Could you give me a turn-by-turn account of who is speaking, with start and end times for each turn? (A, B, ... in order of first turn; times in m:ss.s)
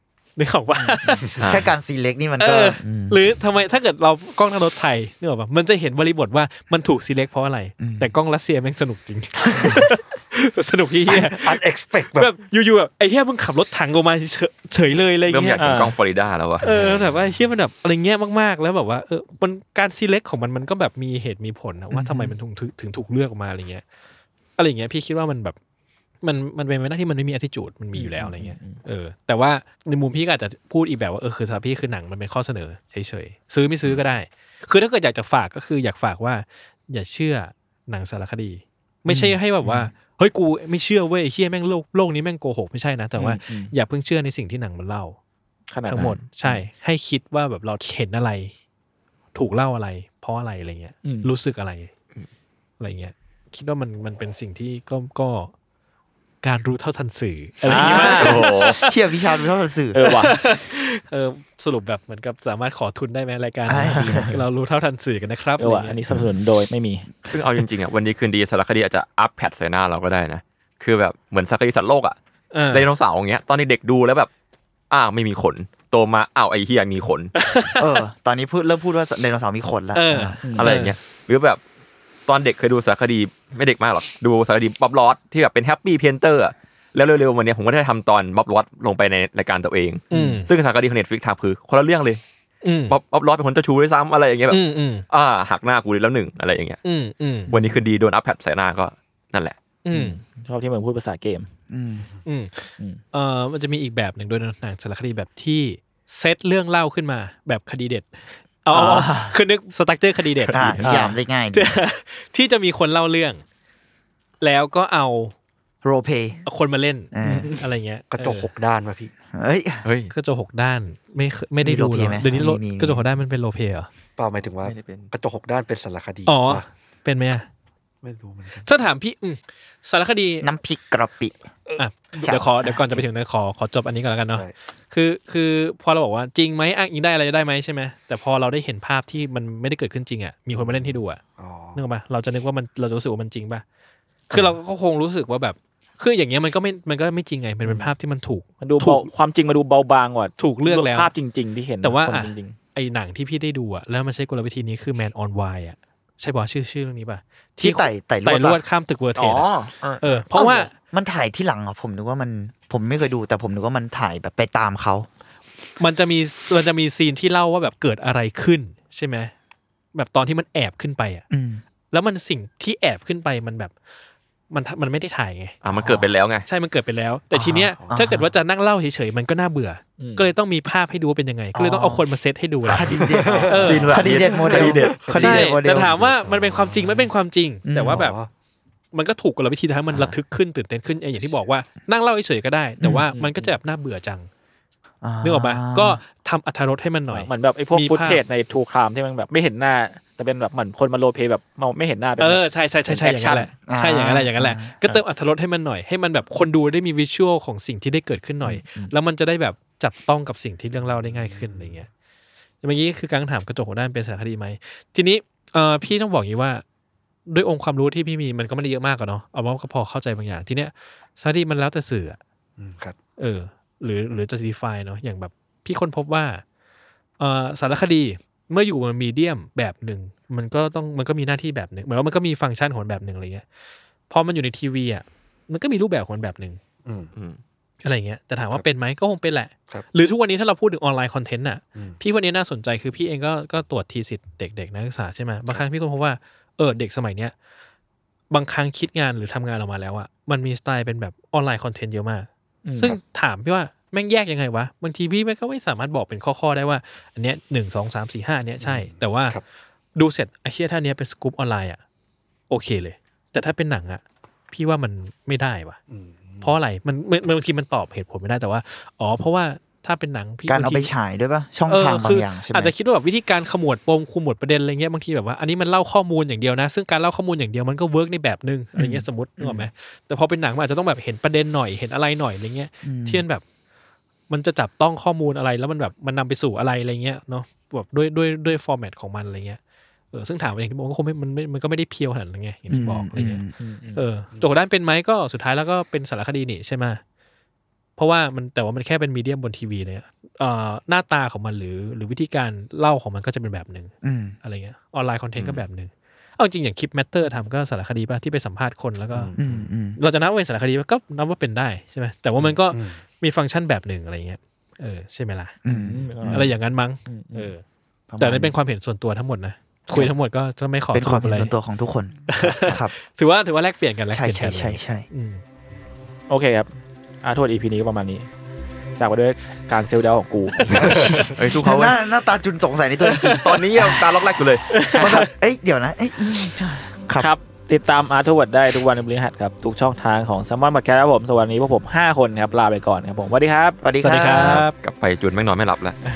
0:00.4-0:01.3 A
0:00.8-0:03.2 B
0:01.4-0:01.7 C
0:02.4-0:11.6 A
0:07.8-0:08.1 B
0:09.5-0:09.9 B
0:11.4-0:12.3 D
0:12.1-0:15.6 A
0:15.3-0:16.6 C
0:15.6-0:16.0 E
0:16.6-0:23.8 A
0:16.7-0:17.1 D
0:21.9-0:22.3 B
0:24.6-0:25.6 A
0:26.2-0:45.2 A
0:27.9-0:28.8 E
0:39.1-0:39.4 B
0:43.2-0:43.7 E
0:45.7-0:46.6 E
0:45.9-0:48.5 A
0:49.3-0:51.9 A
0:51.0-0:51.3 E
0:52.8-0:55.5 A
0:56.4-0:59.0 A
0:57.6-0:58.4 E
0:57.7-0:58.8 C
0:58.8-1:00.0 B
0:59.9-1:00.4 E
1:00.0-1:06.0 A
1:03.7-1:04.4 B
1:03.9-1:04.4 E
1:05.6-1:07.3 E
1:07.3-1:12.2 C
1:12.5-1:12.9 A
1:12.7-1:14.3 C
1:14.9-1:17.3 C
1:17.4-1:18.0 A
1:17.8-1:20.5 B
1:19.9-1:21.0 A
1:20.4-1:20.7 E
1:20.6-1:21.6 C
1:22.3-1:32.2 C
1:30.1-1:30.5 A
1:30.1-1:30.4 E
1:32.6-1:33.0 A
1:32.9-1:36.8 C
1:34.5-1:35.0 A
1:36.8-1:37.5 A
1:37.5-1:39.6 C
1:39.8-1:40.2 A
1:39.9-1:41.5 E
1:41.7-1:42.1 B
1:42.3-1:50.9 A
1:48.7-1:49.4 E
1:50.5-1:50.8 C
1:50.5-1:51.7 B
1:50.8-1:51.2 E
1:51.5-1:53.4 A
1:54.4-1:55.3 A
1:55.8-1:56.4 B
1:56.4-1:58.5 A
1:57.1-1:57.5 B
1:57.2-1:57.6 E
1:58.1-1:59.1 D
1:59.3-1:59.9 B
1:59.8-2:00.1 C
2:00.1-2:03.9 A
2:01.6-2:03.1 B
2:04.2-2:06.7 D
2:04.6-2:05.1 C
2:06.3-2:07.5 A
2:08.0-2:08.7 D
2:08.6-2:10.4 A
2:10.4-2:11.4 B
2:11.8-2:21.2 A
2:12.2-2:13.0 B
2:20.6-2:21.8 D
2:21.8-2:23.6 A
2:24.3-2:29.1 A
2:28.6-2:32.6 E
2:30.4-2:31.1 A
2:31.8-2:39.5 A
2:37.6-2:38.6 B
2:39.2-2:40.0 E
2:40.0-2:40.7 A
2:40.3-2:45.1 B
2:45.8-2:49.3 A
2:50.0-2:51.2 A
2:51.3-2:51.6 B
2:51.9-2:53.7 A
2:54.5-2:55.6 A
2:55.6-2:56.5 C
2:55.7-2:56.1 B
2:56.5-3:04.1 A
2:57.3-2:58.3 B
3:00.0-3:00.3 E
3:01.6-3:02.0 B
3:02.6-3:06.0 B
3:02.8-3:07.1 D
3:03.6-3:05.1 C
3:05.1-3:08.2 A
3:07.7-3:08.0 B
3:07.9-3:08.3 D
3:08.9-3:14.3 A
3:13.0-3:13.5 E
3:15.0-3:16.0 B
3:15.2-3:18.2 A
3:17.1-3:23.6 E
3:22.2-3:31.9 A
3:23.7-3:24.9 B
3:28.4-3:28.9 E
3:30.8-3:31.9 D
3:32.6-3:36.6 A
3:37.3-3:42.2 A
3:42.6-3:43.0 D
3:43.2-3:46.4 A
3:47.2-3:53.4 A
3:54.1-3:56.6 A
3:56.8-3:57.1 D
3:57.2-3:57.4 C
3:57.8-4:07.3 A
4:08.3-4:19.4 A
4:12.6-4:13.0 E
4:18.6-4:19.4 D
4:20.0-4:21.8 A
4:22.5-4:25.8 A
4:25.9-4:26.6 D
4:26.4-4:30.9 A
4:30.5-4:32.7 B
4:31.7-4:43.4 A
4:38.8-4:39.0 B
4:39.4-4:39.7 E
4:42.8-4:43.2 B
4:44.3-4:49.6 A
4:50.1-4:53.4 A
4:52.7-4:53.6 B
4:53.6-4:54.0 E
4:53.9-4:57.0 A
4:58.0-5:09.4 A
5:04.0-5:04.4 B
5:09.1-5:09.7 D
5:09.4-5:10.0 B
5:10.0-5:15.6 A
5:12.7-5:13.0 D
5:15.6-5:16.5 B
5:15.7-5:16.5 E
5:16.2-5:17.6 A
5:17.1-5:17.5 E
5:18.1-5:18.5 B
5:18.2-5:21.5 A
5:20.9-5:23.0 B
5:22.3-5:25.4 A
5:24.1-5:25.1 B
5:26.3-5:26.7 E
5:27.2-5:28.3 E
5:29.0-5:31.0 E
5:30.6-5:31.0 A
5:30.7-5:34.0 B
5:31.4-5:32.0 C
5:33.2-5:33.4 A
5:33.4-5:34.7 C
5:34.7-5:35.3 A
5:35.0-5:37.3 B
5:37.2-5:43.8 E
5:43.8-5:44.7 B
5:44.0-5:44.8 A
5:44.8-5:46.0 C